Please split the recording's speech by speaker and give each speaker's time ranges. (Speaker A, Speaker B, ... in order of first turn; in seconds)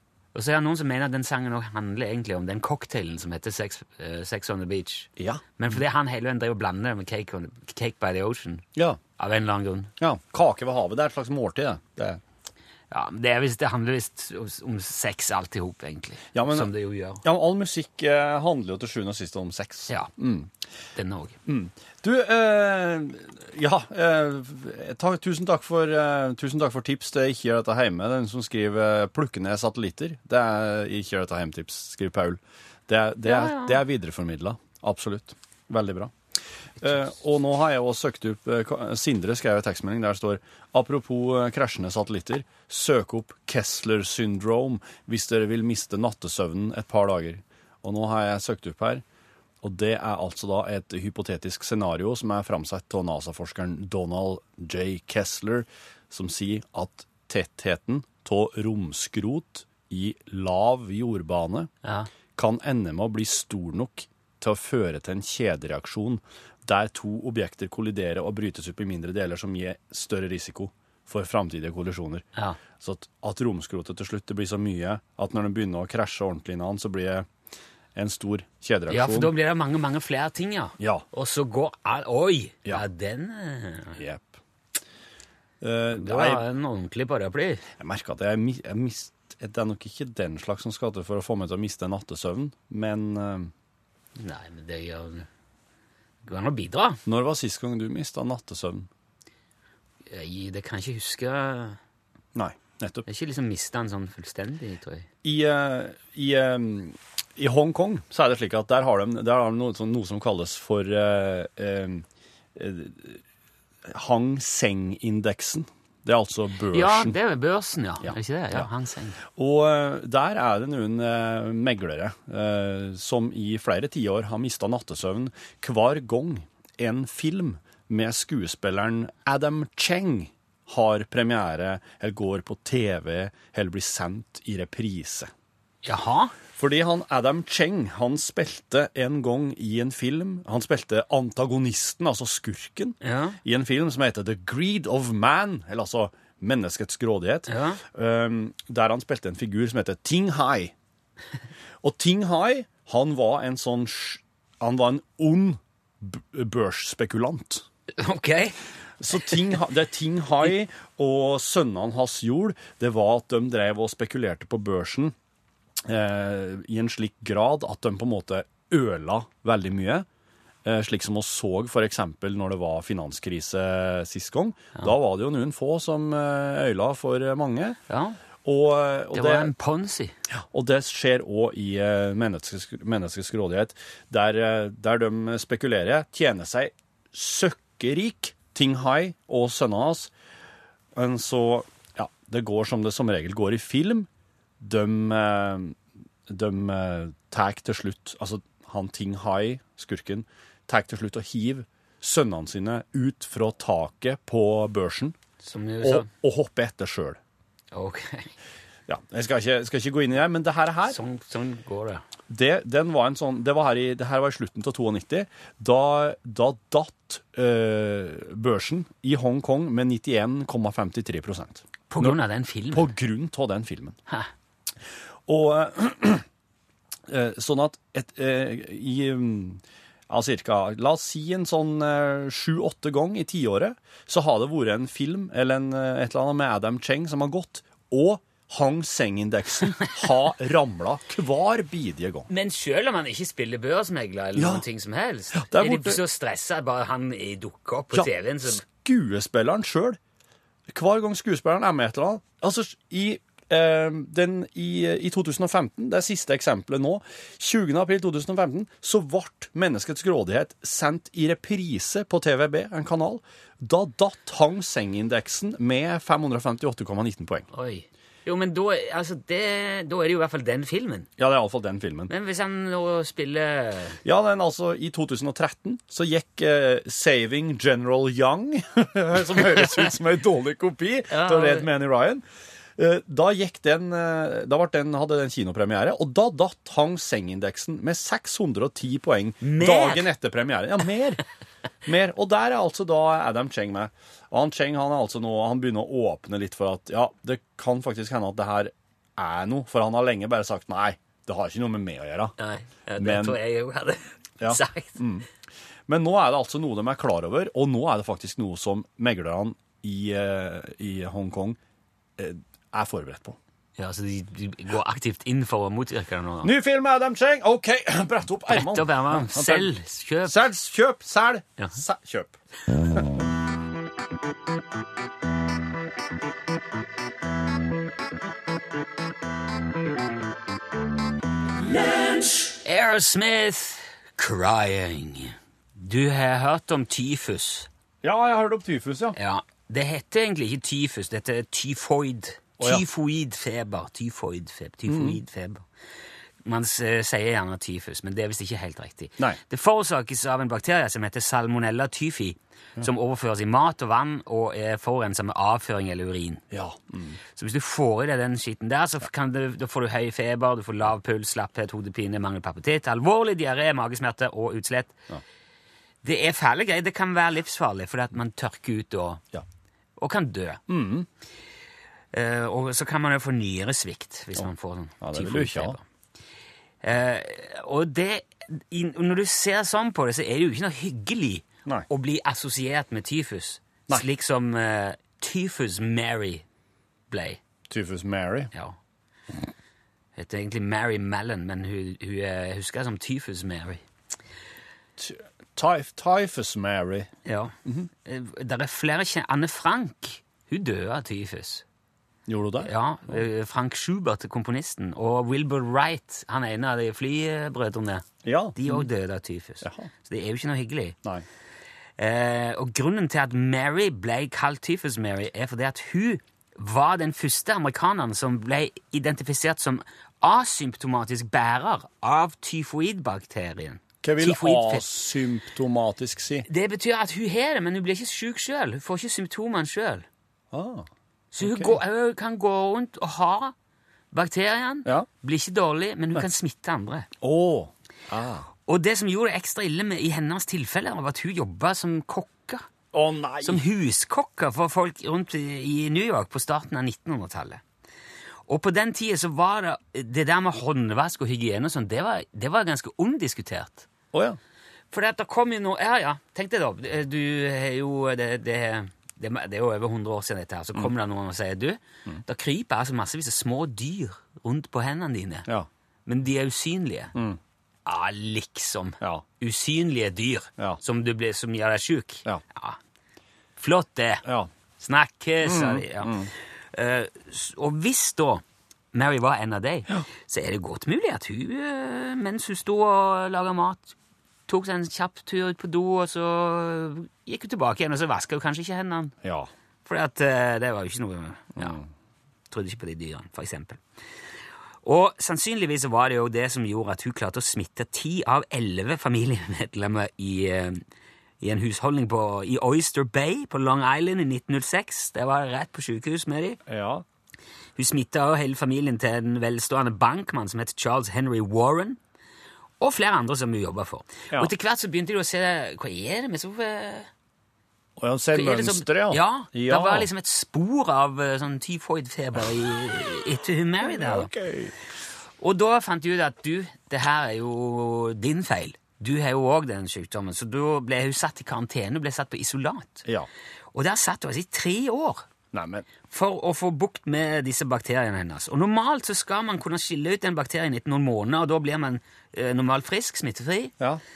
Speaker A: 0.3-8.6, 9.2-9.9, 12.9-17.2, 20.9-21.4, 33.2-33.8, 61.8-62.1, 78.9-84.0, 85.9-87.6, 94.2-95.3, 96.2-97.0, 100.1-101.8, 103.1-105.1, 116.7-119.2, 135.8-136.3, 143.0-143.4, 147.5-147.8, 157.9-158.6, 177.9-178.2, 179.1-180.2, 205.4-206.1, 207.7-208.3, 210.9-212.0, 221.9-222.9, 242.3-248.6, 267.5-271.1, 272.1-274.0, 281.1-281.7, 289.4-290.1, 302.4-305.0, 313.8-316.5, 318.5-320.4, 332.6-337.7, 339.1-345.6, 346.4-356.4, 357.4-365.0, 366.0-369.2, 370.0-370.6, 372.1-375.8, 376.8-386.4, 387.1-387.4, 390.1-393.8, 397.2-401.6, 402.6-411.0, 412.0-424.9, 426.5-430.1, 431.3-433.5, 434.1-437.1, 438.6-442.6, 443.4-447.6, 448.5-453.9, 454.9-465.5, 466.1-467.1, 467.9-472.8, 473.6-474.2, 474.8-484.0, 484.5-489.1, 489.9-491.8, 492.5-493.8, 494.8-500.8, 501.4-506.6, 507.8-512.0, 512.8-517.1, 518.3-524.3, 525.4-533.0, 533.7-535.3, 536.1-543.7
Speaker B: 5.2-5.8, 8.8-9.0, 10.0-12.2, 16.3-20.5, 21.4-36.1, 36.8-49.0, 49.6-61.7, 62.4-72.2, 72.8-77.3, 77.9-79.3, 80.8-81.0, 84.0-84.4, 85.6-86.4, 87.8-93.5, 97.1-98.9, 102.3-103.0, 105.2-113.2, 113.9-117.2, 118.0-118.7, 119.3-135.3, 136.6-150.7, 151.8-157.6, 159.0-165.1, 165.8-170.1, 170.6-177.8, 178.4-179.5, 180.3-190.1, 190.9-194.1, 194.6-195.8, 196.3-205.2, 205.8-207.2, 208.9-211.0, 212.3-222.2, 222.7-224.0, 225.3-226.2, 227.1-242.3, 244.4-244.6, 245.3-246.0, 247.9-250.0, 250.7-267.5, 271.2-272.1, 274.0-282.2, 282.8-291.2, 291.9-302.3, 303.0-303.4, 304.4-305.3, 305.9-311.6, 312.2-313.4, 316.4-319.7, 320.2-323.0, 338.0-339.1, 342.6-342.8, 344.9-345.2, 356.5-357.2, 370.7-371.1, 375.0-375.8, 387.7-388.5, 395.0-397.1, 402.3-403.2, 408.2-408.9, 409.6-409.9, 424.0-426.5, 430.5-430.9, 431.4-431.8, 437.2-438.5, 442.9-443.6, 454.1-454.4, 475.4-476.3, 489.2-489.5, 491.6-491.9, 506.6-507.0, 518.0-520.1, 523.8-524.7, 535.5-535.9